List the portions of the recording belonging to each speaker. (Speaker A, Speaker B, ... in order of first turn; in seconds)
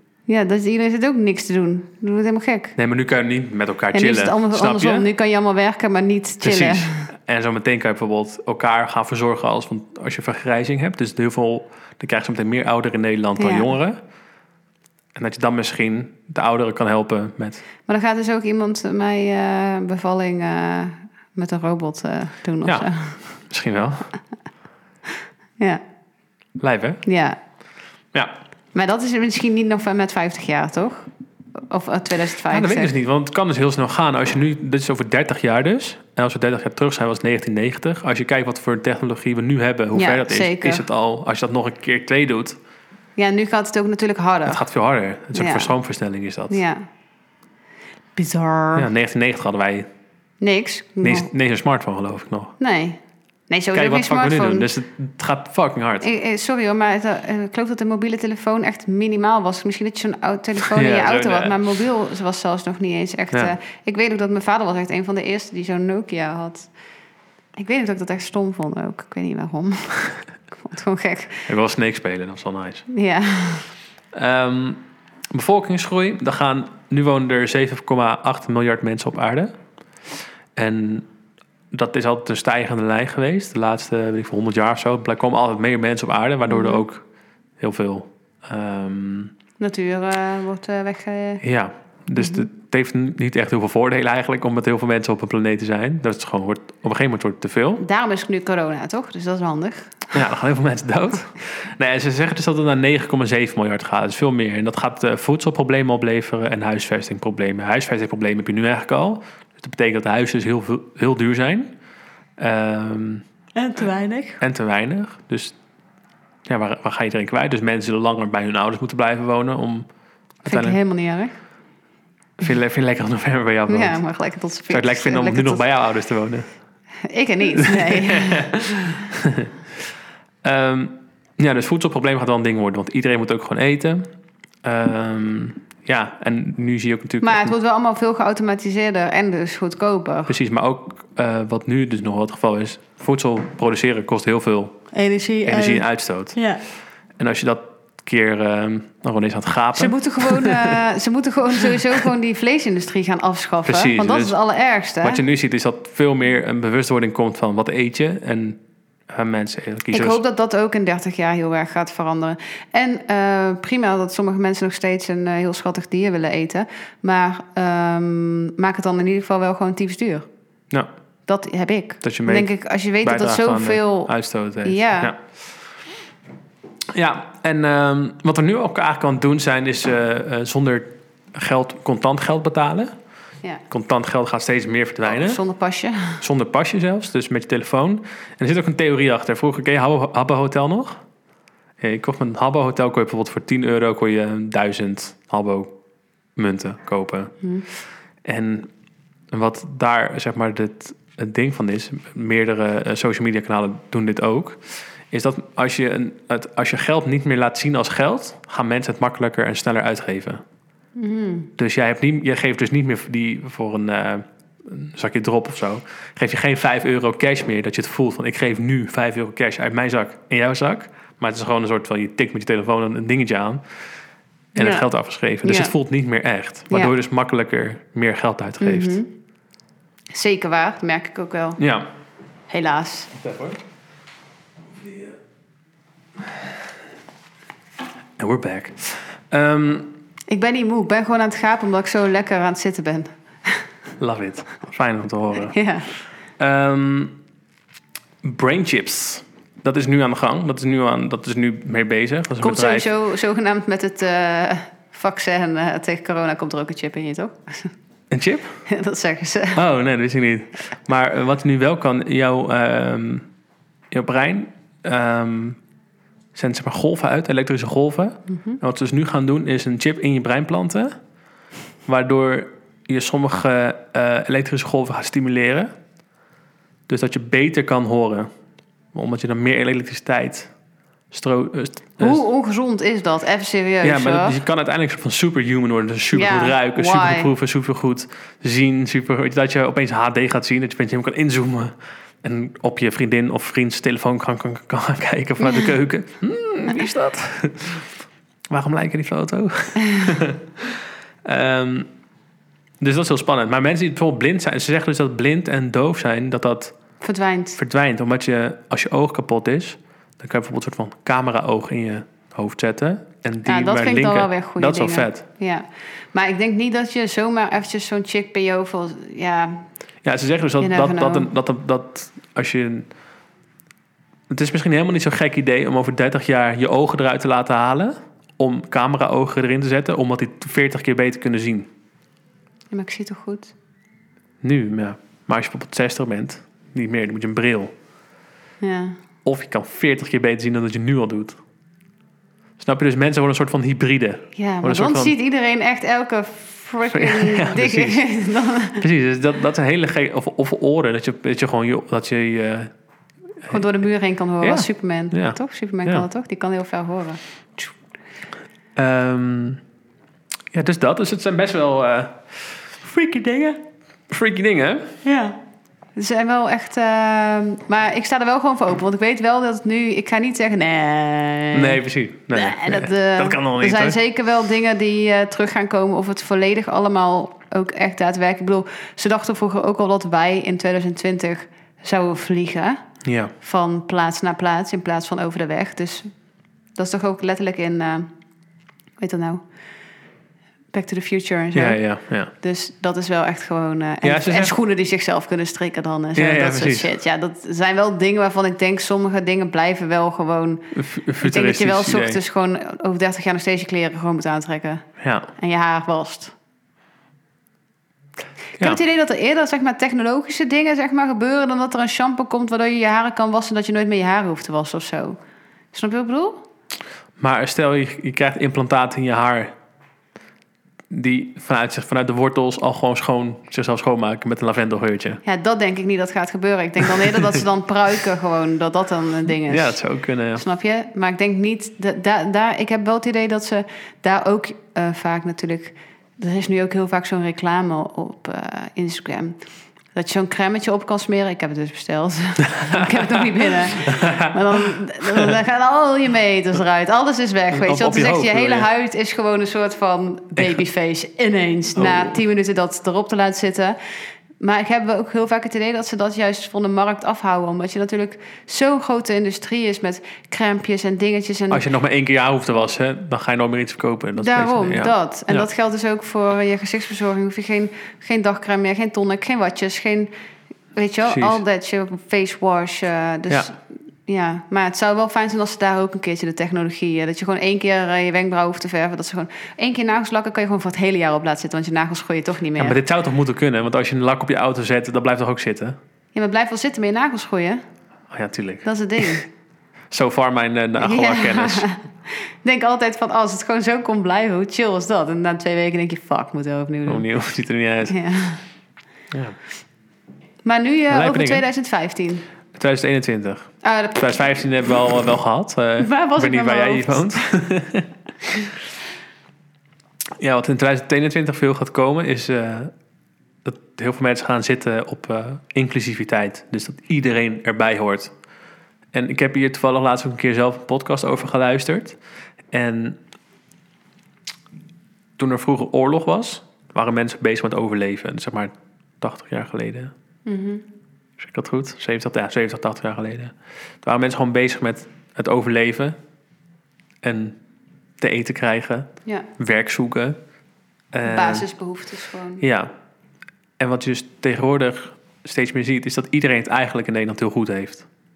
Speaker A: 0.3-2.8, 3.9-7.1, 13.4-13.7, 17.9-23.2, 27.1-27.4, 28.7-32.9, 40.0-40.9, 43.2-44.6, 45.3-45.7, 46.5-46.8, 48.2-48.9, 50.4-51.3, 52.6-54.7, 56.0-66.7, 67.6-71.5, 72.9-73.7, 86.5-86.8, 89.6-91.4, 92.2-92.5, 97.8-100.0, 113.5-114.4, 120.5-121.3, 123.7-125.6, 127.0-128.5, 137.2-140.3, 144.9-146.6, 149.8-155.2, 159.9-170.3, 171.3-174.1, 174.6-175.1, 185.1-186.2, 211.0-211.5, 224.6-224.9, 225.4-225.7, 228.6-229.1, 230.1-231.6, 232.5-233.1, 240.3-243.7, 245.4-245.9, 252.4-257.7, 258.7-259.6, 282.0-284.4, 286.1-287.3, 295.4-295.7, 307.0-307.6, 313.4-319.7, 320.6-321.3, 332.7-333.5, 338.6-339.0, 344.4-348.8, 353.5-357.7, 365.0-365.4, 366.0-371.8, 372.3-382.8, 383.4-386.1, 386.8-388.1, 389.0-389.4, 390.7-391.8, 392.4-404.9, 405.4-406.3, 408.6-415.2, 415.7-416.4, 425.2-429.8, 430.4-439.4, 439.9-453.8, 454.4-461.6, 464.2-470.1, 470.8-482.8, 486.1-487.6, 488.6-489.2, 490.8-497.1, 497.9-498.4, 500.4-502.3, 503.6-504.1, 505.8-507.2, 530.2-530.6, 541.0-542.4
Speaker B: 2.8-5.1, 6.4-14.0, 15.2-17.6, 22.6-24.1, 26.6-27.0, 32.5-42.6, 44.5-46.6, 48.8-49.9, 51.0-52.5, 53.7-56.1, 60.6-61.7, 71.5-72.8, 74.1-79.5, 80.6-81.1, 81.7-87.0, 87.6-89.3, 91.4-97.8, 100.1-111.7, 112.4-113.2, 114.4-115.6, 116.5-119.9, 120.4-120.8, 122.4-124.0, 124.7-126.5, 127.5-129.5, 130.4-134.1, 134.6-137.5, 140.3-144.8, 145.4-146.4, 147.2-150.8, 153.7-154.4, 155.0-160.2, 172.0-175.2, 176.9-182.9, 183.7-185.4, 186.2-191.0, 191.8-195.7, 196.4-197.4, 198.2-198.7, 199.3-210.4, 211.6-223.6, 224.6-229.0, 231.6-231.9, 233.2-233.6, 238.2-239.9, 244.0-245.6, 246.4-247.2, 248.2-252.9, 258.1-258.6, 259.5-263.3, 263.9-265.6, 266.4-271.0, 271.9-275.7, 276.9-278.3, 278.9-280.5, 281.1-282.2, 283.8-297.9, 298.5-301.9, 302.8-306.8, 307.6-315.2, 320.0-322.9, 324.3-331.7, 334.4-337.7, 339.2-341.4, 342.6-345.1, 346.9-348.0, 348.7-352.7, 354.4-356.1, 358.8-359.6, 360.5-365.0, 371.5-374.0, 383.0-383.3, 391.5-392.3, 394.0-394.6, 396.2-396.9, 400.7-402.2, 405.0-405.3, 417.2-419.6, 420.9-425.2, 429.5-430.4, 442.4-443.1, 443.8-445.4, 447.5-448.7, 451.8-452.1, 461.5-465.5, 471.1-471.4, 482.6-485.8, 488.1-489.3, 489.9-491.7, 496.9-498.0, 499.1-499.4, 500.9-501.4, 502.6-507.9, 510.2-512.7, 513.5-518.1, 518.9-522.0, 522.5-523.0, 525.2-529.9, 531.2-536.0, 537.0-537.4, 538.0-540.2, 540.9-541.5, 542.4-542.7, 543.6-547.9